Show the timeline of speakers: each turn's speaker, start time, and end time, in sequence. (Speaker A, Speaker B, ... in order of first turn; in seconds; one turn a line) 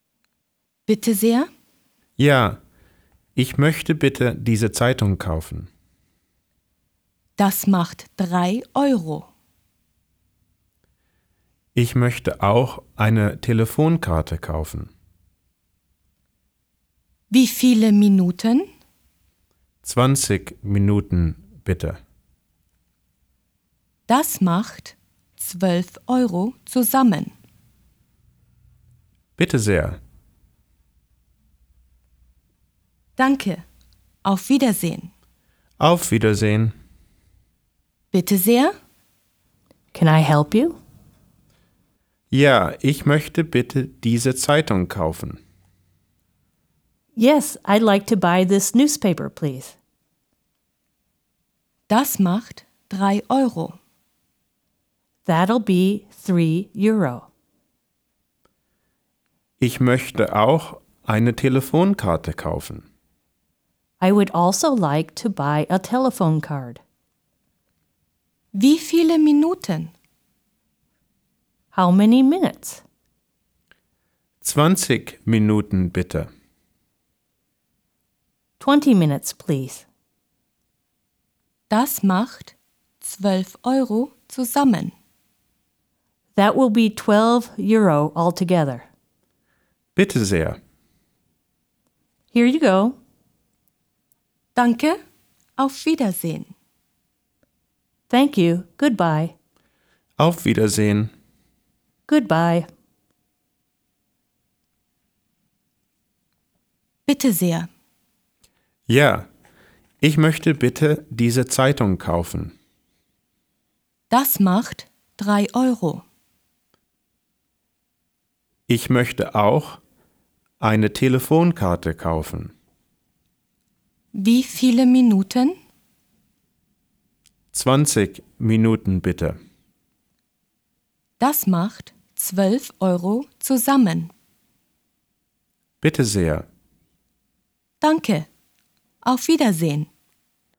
Speaker A: 0.9-1.5
Speaker B: 2.2-2.6
Speaker B: 3.4-5.7
Speaker A: 7.4-9.3
Speaker B: 11.8-14.9
Speaker A: 17.3-18.7
Speaker B: 19.8-22.0
Speaker A: 24.1-27.3
Speaker B: 29.4-30.0
Speaker A: 33.2-33.6
Speaker A: 34.2-35.1
Speaker B: 35.8-36.7
Speaker A: 38.1-38.7
Speaker C: 39.9-40.8
Speaker B: 42.3-45.4
Speaker C: 47.2-49.8
Speaker A: 51.9-53.8
Speaker C: 55.3-57.3
Speaker B: 59.6-62.9
Speaker C: 64.0-66.8
Speaker A: 68.5-69.9
Speaker C: 71.7-72.8
Speaker B: 74.4-76.3
Speaker C: 78.6-79.8
Speaker A: 81.7-84.9
Speaker C: 86.4-88.9
Speaker B: 90.0-90.6
Speaker C: 92.3-93.0
Speaker A: 94.5-95.0
Speaker A: 95.6-96.5
Speaker C: 98.1-99.3
Speaker B: 100.2-101.1
Speaker C: 102.1-102.7
Speaker A: 107.1-107.7
Speaker B: 108.9-109.3
Speaker B: 110.0-112.5
Speaker A: 114.1-116.0
Speaker B: 118.7-119.8
Speaker B: 120.6-122.5
Speaker A: 124.1-125.6
Speaker B: 127.5-129.4
Speaker A: 131.2-134.1
Speaker B: 135.8-136.5
Speaker A: 137.8-138.3
Speaker A: 139.0-139.9